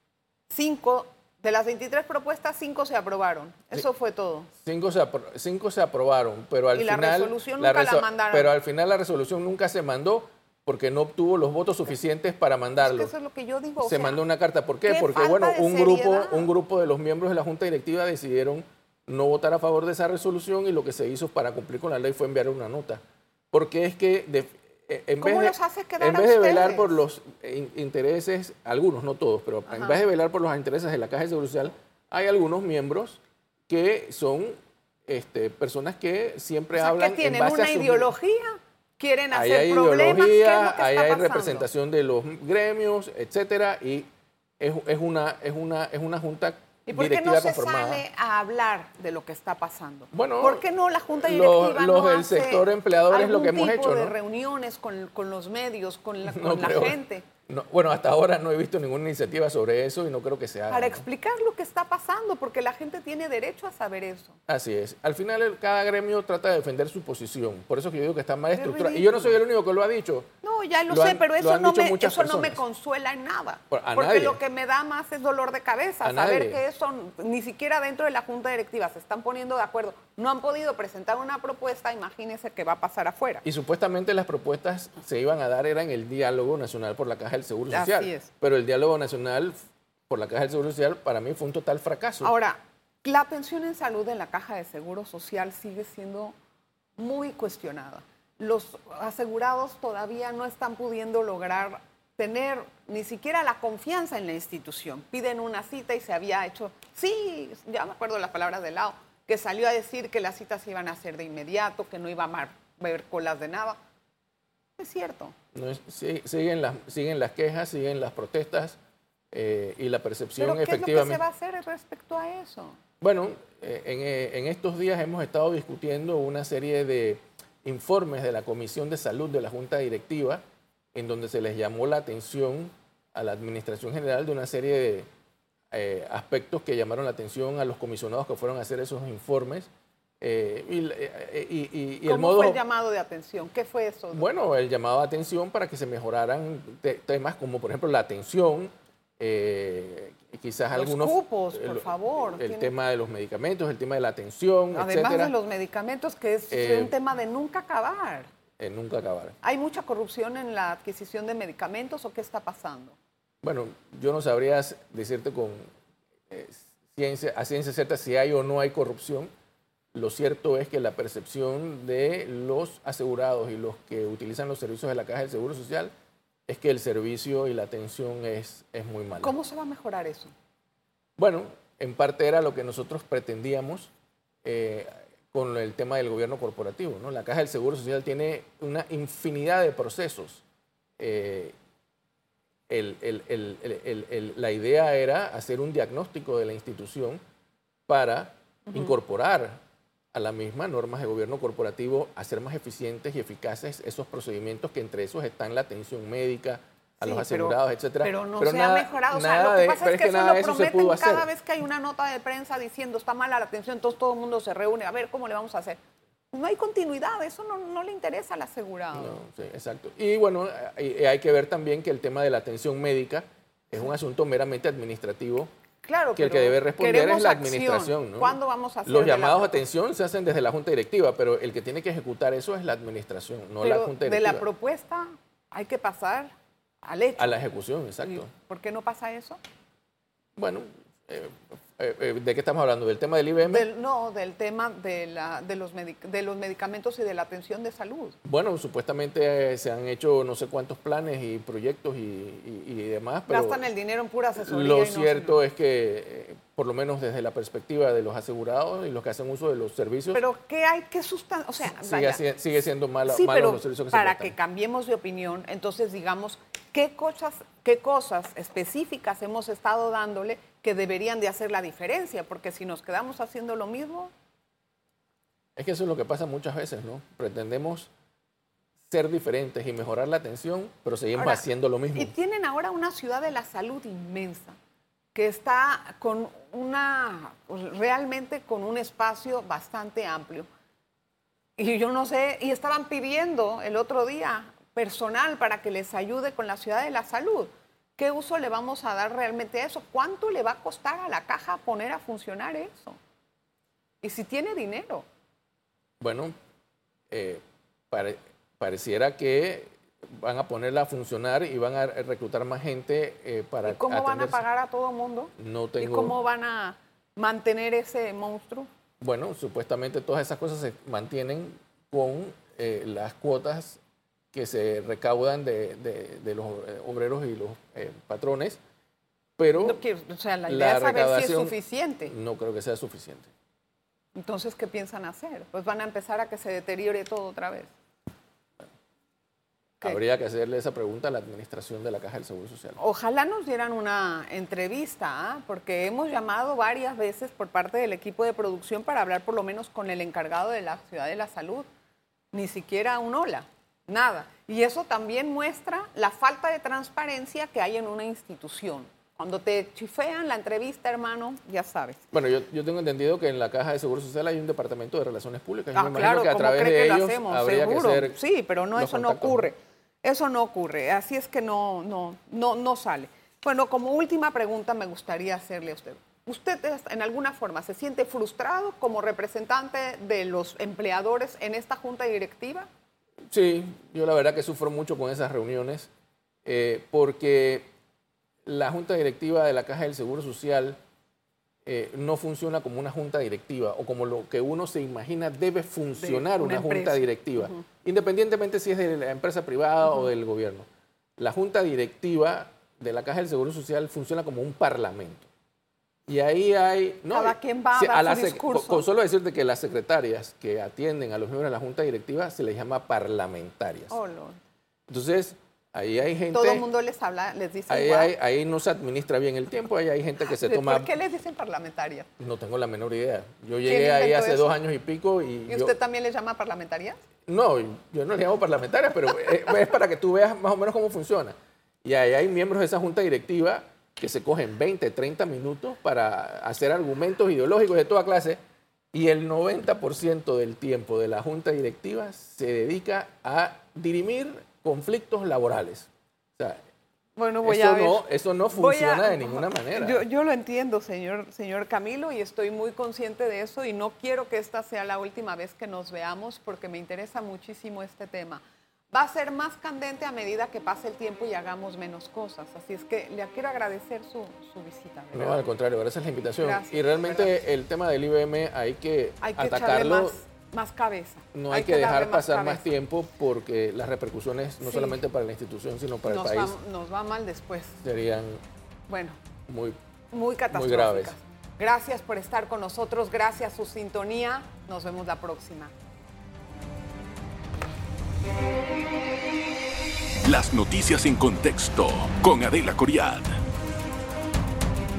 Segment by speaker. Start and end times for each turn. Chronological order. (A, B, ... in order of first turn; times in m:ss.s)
0:00.5-0:04.5 A
0:04.6-0:13.1 B
0:06.7-0:08.5 A
0:12.8-0:14.2 A
0:13.8-0:23.0 B
0:14.8-0:16.5 A
0:23.5-0:38.1 B
0:25.2-0:27.0 A
0:29.7-0:30.0 A
0:36.7-0:41.7 A
0:39.3-0:44.1 B
0:44.6-0:48.0 B
0:46.8-0:57.2 A
0:50.1-0:54.1 B
0:56.2-1:01.0 B
1:00.7-1:04.4 A
1:04.5-1:10.3 B
1:08.5-1:09.3 A
1:10.4-1:23.4 A
1:10.9-1:12.6 B
1:13.7-1:14.4 B
1:16.0-1:16.6 B
1:23.4-1:29.6 B
1:27.7-1:28.3 A
1:30.1-1:32.3 B
1:32.2-1:36.3 A
1:37.0-1:53.8 A
1:54.8-1:55.3 A
1:55.5-1:58.8 B
1:59.3-2:01.2 B
2:00.4-2:02.8 A
2:03.0-2:10.4 B
2:10.9-2:15.1 B
2:15.7-2:19.7 B
2:20.2-2:22.6 B
2:22.0-2:24.3 A
2:24.1-2:35.3 B
2:30.7-2:32.7 A
2:34.7-2:38.3 A
2:36.5-2:36.9 B
2:38.6-2:39.4 B
2:39.4-2:43.0 A
2:43.4-2:45.7 B
2:46.3-2:49.3 B
2:49.9-2:55.9 B
2:56.5-2:59.4 B
2:59.2-3:00.3 A
3:01.2-3:03.9 B
3:04.4-3:10.4 B
3:11.0-3:11.5 B
3:12.7-3:17.2 B
3:17.9-3:19.6 B
3:20.1-3:31.3 B
3:27.0-3:35.8 A
3:36.3-3:39.2 A
3:38.9-3:45.5 B
3:45.8-3:49.6 A
3:46.2-3:54.4 B
3:53.6-3:56.3 A
3:56.8-3:57.4 A
3:57.2-3:58.3 B
3:58.0-3:59.4 A
4:00.4-4:03.7 B
4:03.4-4:08.2 A
4:08.2-4:13.6 B
4:13.3-4:15.4 A
4:14.4-4:20.2 B
4:20.1-4:22.2 A
4:21.7-4:24.3 B
4:23.0-4:34.1 A
4:35.6-4:37.9 B
4:38.9-4:42.1 B
4:41.1-4:44.6 A
4:45.1-4:50.5 A
4:51.6-5:03.0 A
5:04.0-5:05.0 A
5:06.0-5:06.3 B
5:07.1-5:14.4 B
5:13.6-5:18.7 A
5:15.4-5:16.2 B
5:19.0-5:23.8 B
5:24.3-5:28.6 B
5:29.4-5:29.8 B
5:29.6-5:32.1 A
5:30.5-5:33.3 B
5:34.2-5:37.7 A
5:39.8-5:42.8 B
5:42.8-5:51.7 A
5:52.3-6:02.0 A
6:02.1-6:08.2 B
6:05.7-6:22.7 A
6:08.7-6:09.5 B
6:23.3-6:25.9 B
6:26.4-6:27.7 B
6:28.4-6:30.8 B
6:31.6-6:40.7 B
6:36.0-6:37.6 A
6:41.2-6:45.3 B
6:46.1-6:54.0 B
6:47.1-6:48.9 A
6:53.9-6:54.4 A
6:54.9-6:56.6 B
6:56.3-6:58.1 A
6:57.7-7:00.9 B
7:00.3-7:02.1 A
7:02.2-7:05.7 B
7:03.6-7:04.5 A
7:05.5-7:07.0 A
7:07.3-7:18.4 B
7:18.9-7:26.6 B
7:27.2-7:38.4 A
7:27.4-7:30.0 B
7:38.9-7:45.4 A
7:45.1-7:50.2 B
7:46.4-7:47.3 A
7:49.2-7:52.6 A
7:51.3-7:56.5 B
7:54.6-7:55.0 A
7:56.0-7:57.8 A
7:57.8-7:58.4 B
7:58.9-7:59.2 A
7:59.5-7:59.8 B
8:00.1-8:05.7 A
8:00.5-8:01.1 B
8:10.2-8:13.4 C